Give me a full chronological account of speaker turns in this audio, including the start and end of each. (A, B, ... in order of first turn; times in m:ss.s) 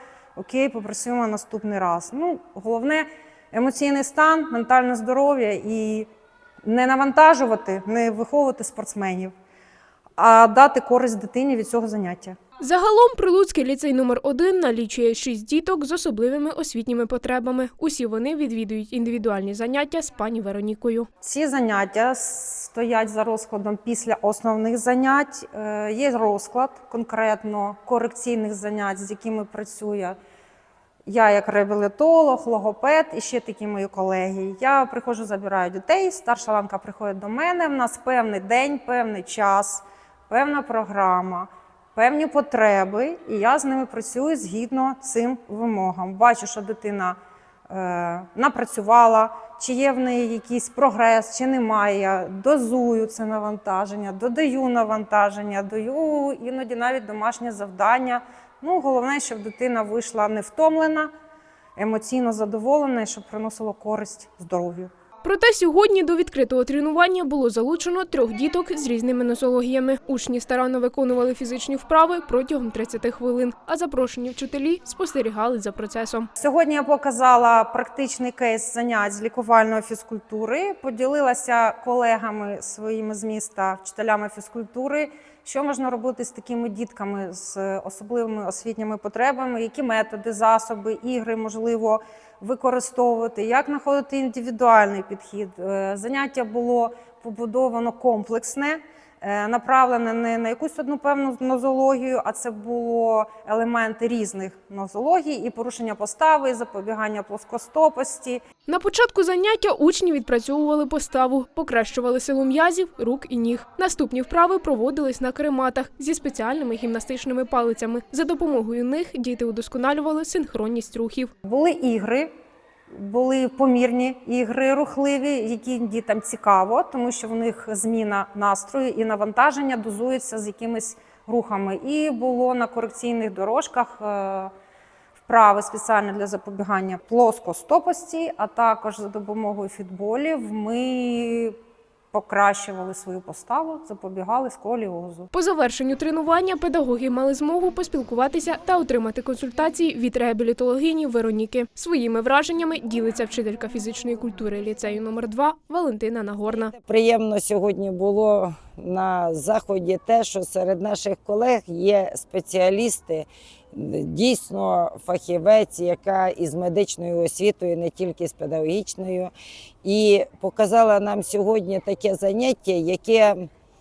0:00.4-0:06.1 A
0:06.6-0:09.3 A
0:10.2-0:12.4 A
0:12.6-0:21.1 B
0:21.2-0:30.2 A
0:31.0-0:47.2 A
0:47.7-1:01.1 A
1:01.8-1:04.9 A
1:05.2-1:16.3 B
1:16.4-1:48.4 A
1:48.7-2:01.3 B
2:01.4-2:02.3 A
2:02.9-2:14.5 A
2:15.2-2:21.6 A
2:22.1-2:25.3 A
2:25.3-2:36.7 B
2:36.5-2:49.3 C
2:49.8-2:53.5 C